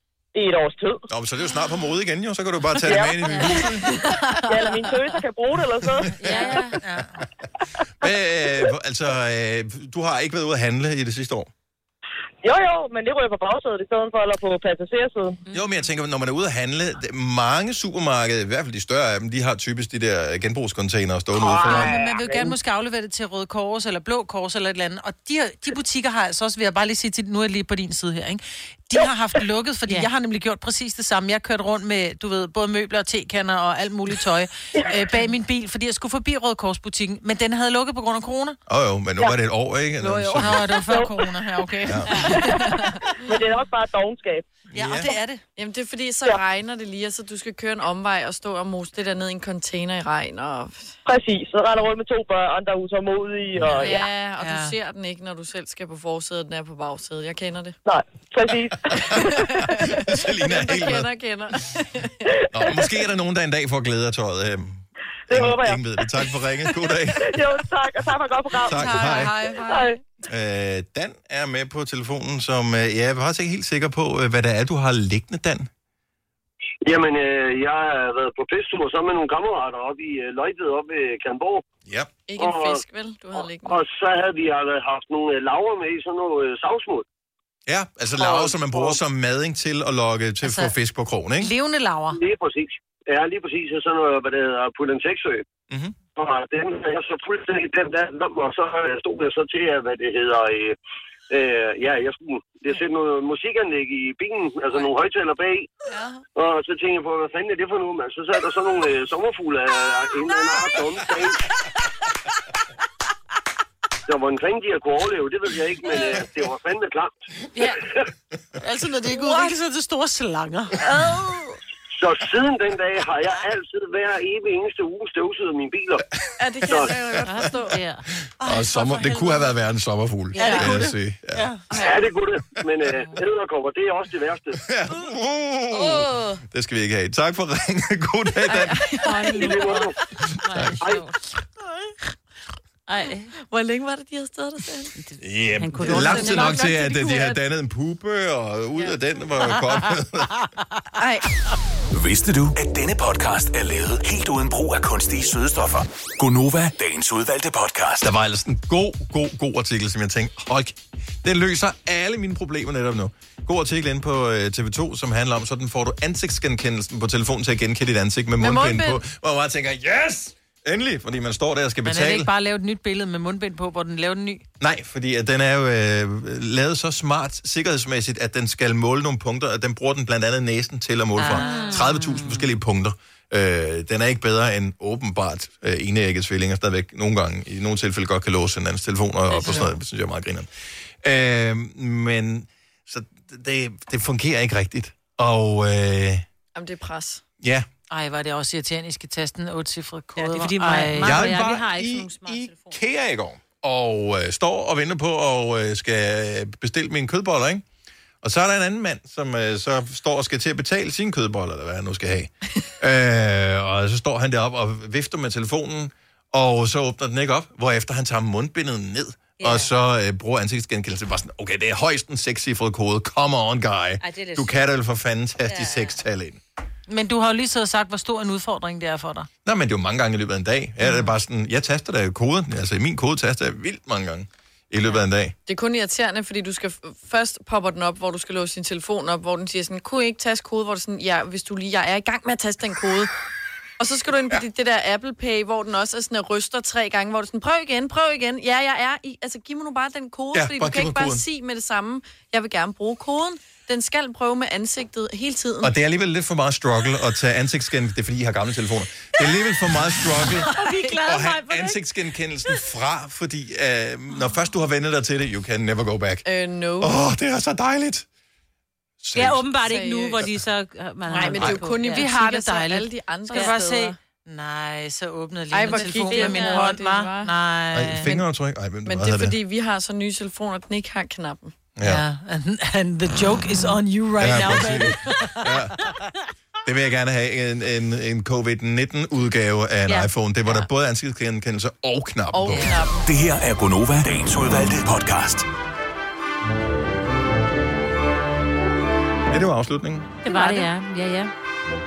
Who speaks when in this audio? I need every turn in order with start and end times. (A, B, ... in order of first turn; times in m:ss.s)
0:00.4-0:01.1 A
0:01.1-0:04.2 B
0:02.8-0:03.4 A
0:03.8-0:04.5 C
0:04.5-0:06.1 A
0:06.0-0:06.6 B
0:06.1-0:07.2 D
0:06.2-0:06.8 E
0:08.0-0:11.5 B
0:12.4-0:15.4 A
0:15.5-0:15.9 E
0:15.5-0:22.0 B
0:21.6-0:38.6 D
0:38.7-0:40.7 B
0:40.0-0:42.7 D
0:40.8-0:41.2 A
0:41.8-0:42.3 B
0:42.4-0:43.0 C
0:43.2-0:44.5 A
0:44.7-0:45.1 B
0:44.7-0:45.4 D
0:45.6-0:51.0 C
0:51.0-0:54.1 A
0:53.6-0:53.9 B
0:53.8-0:57.8 C
0:54.4-0:54.8 D
0:57.9-0:58.9 A
0:59.0-1:01.1 B
0:59.0-1:02.3 C
1:02.5-1:07.4 B
1:05.3-1:05.8 A
1:07.2-1:09.1 A
1:08.6-1:09.5 B
1:08.7-1:10.0 C
1:09.6-1:10.0 A
1:10.3-1:15.7 B
1:16.8-1:21.6 F
1:21.9-1:22.1 B
1:22.3-1:23.8 C
1:22.4-1:22.8 F
1:23.3-1:27.0 F
1:27.7-1:31.5 B
1:28.2-1:29.0 F
1:30.4-1:30.7 D
1:31.4-1:32.2 D
1:32.1-1:35.4 F
1:35.7-1:36.0 B
1:36.2-1:40.8 F
1:41.3-1:45.7 F
1:45.9-1:46.2 C
1:46.4-1:51.4 F
1:54.1-1:57.2 F
1:58.6-2:00.9 D
1:59.2-1:59.5 C
2:00.9-2:01.5 C
2:01.9-2:06.0 F
2:06.4-2:07.8 C
2:06.6-2:07.1 F
2:07.2-2:07.5 B
2:07.3-2:08.0 E
2:08.4-2:09.5 D
2:08.4-2:11.5 B
2:10.4-2:11.6 D
2:10.4-2:10.8 C
2:11.7-2:12.0 C
2:11.8-2:14.6 F
2:14.6-2:18.9 B
2:18.5-2:19.9 C
2:19.2-2:19.7 E
2:19.3-2:20.0 F
2:20.4-2:20.8 B
2:20.4-2:21.2 E
2:22.9-2:23.3 E
2:23.5-2:24.9 C
2:25.0-2:26.7 E
2:25.2-2:30.4 B
2:25.8-2:27.4 C
2:31.0-2:31.3 C
2:31.9-2:38.1 G
2:38.0-2:52.3 B
2:48.4-2:49.0 C
2:51.8-2:54.4 D
2:54.6-3:10.5 B
3:01.2-3:02.0 D
3:01.3-3:02.5 E
3:09.3-3:09.7 C
3:11.0-3:16.3 B
3:16.6-3:17.2 C
3:17.4-3:17.7 B
3:17.9-3:21.4 D
3:20.2-3:22.8 E
3:21.0-3:27.6 B
3:28.2-3:46.4 B
3:39.4-3:39.7 E
3:44.0-3:44.6 E
3:45.5-3:46.0 E
3:46.9-3:49.3 D
3:49.4-3:55.4 B
3:55.5-4:03.1 C
4:03.8-4:15.7 C
4:10.3-4:11.2 B
4:15.6-4:26.2 B
4:20.3-4:21.8 E
4:26.2-4:27.0 C
4:26.8-4:28.1 B
4:29.0-4:29.6 B
4:29.1-4:32.1 E
4:29.6-4:30.3 C
4:31.1-4:34.0 C
4:31.1-4:38.1 D
4:33.3-4:33.6 E
4:35.5-4:37.4 C
4:35.7-4:36.7 E
4:37.7-4:39.4 B
4:38.8-4:41.5 C
4:41.8-4:42.0 B
4:41.8-4:45.5 D
4:44.2-4:45.8 B
4:46.6-4:52.8 B
4:49.9-4:50.7 E
4:52.3-4:53.1 C
4:53.0-4:55.5 G
4:59.3-5:00.2 B
5:00.2-5:01.3 E
5:00.3-5:00.6 D